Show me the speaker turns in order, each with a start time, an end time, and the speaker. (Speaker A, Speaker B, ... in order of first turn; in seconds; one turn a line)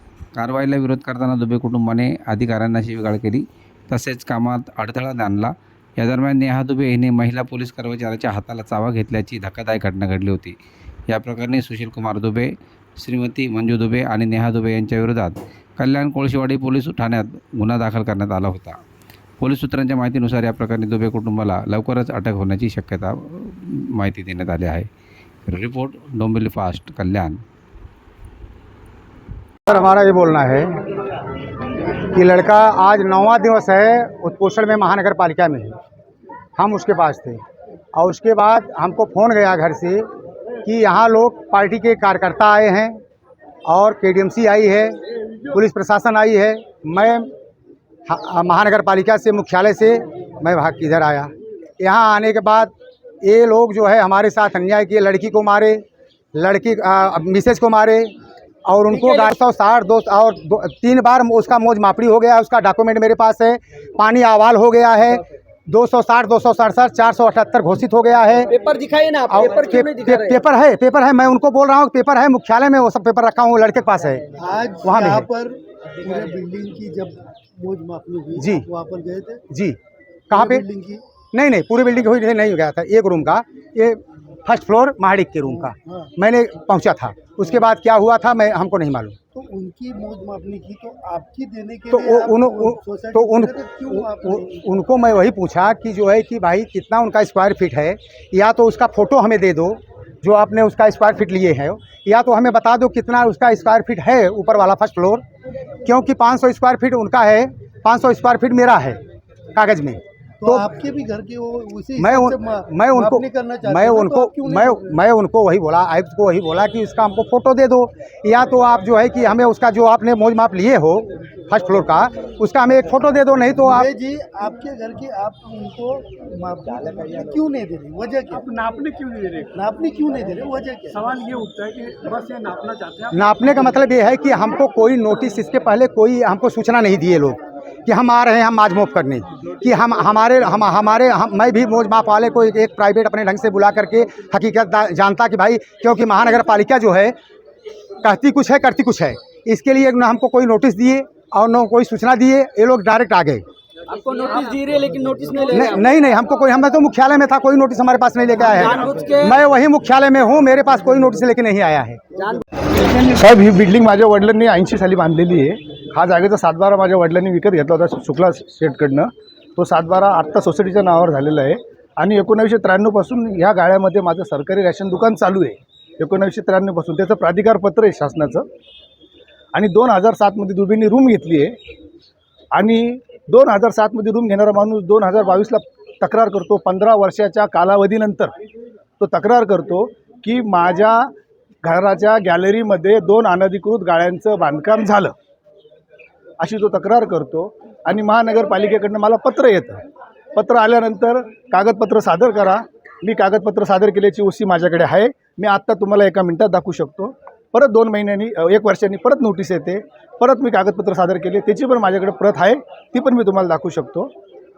Speaker A: 0.3-10.6
Speaker A: 11.1-18.8
Speaker A: 19.4-24.9
Speaker A: 25.5-27.4
Speaker B: 29.7-30.7
Speaker B: 32.1-35.8
Speaker B: 36.5-37.4
Speaker B: 37.9-40.0
Speaker B: 40.6-43.0
Speaker B: 43.7-45.0
Speaker B: 45.5-47.3
Speaker B: 48.1-58.1
Speaker B: 58.6-68.5
Speaker C: 58.9-59.3
Speaker C: 68.5-70.4
Speaker B: 69.3-74.2
Speaker D: 74.4-75.5
Speaker B: 74.8-75.3
Speaker D: 76.1-79.4
Speaker B: 78.3-78.6
Speaker B: 79.5-79.8
Speaker B: 80.3-80.6
Speaker D: 80.3-81.0
Speaker B: 81.3-89.2
Speaker D: 89.3-94.4
Speaker B: 91.9-105.2
Speaker B: 105.8-109.0
Speaker B: 109.5-110.7
Speaker D: 110.5-114.5
Speaker B: 112.0-123.9
Speaker D: 123.9-128.4
Speaker E: 128.3-129.5
Speaker D: 129.5-131.0
Speaker E: 131.0-133.1
Speaker B: 133.1-147.1
Speaker B: 148.0-153.4
Speaker C: 153.9-155.9
Speaker B: 155.4-162.0
Speaker C: 158.5-159.4
Speaker C: 162.1-162.4
Speaker F: 162.8-178.5
Speaker F: 179.5-181.6
Speaker F: 182.5-188.3
Speaker F: 189.0-191.1
Speaker F: 191.6-195.1
Speaker F: 196.4-199.8
Speaker F: 200.3-214.1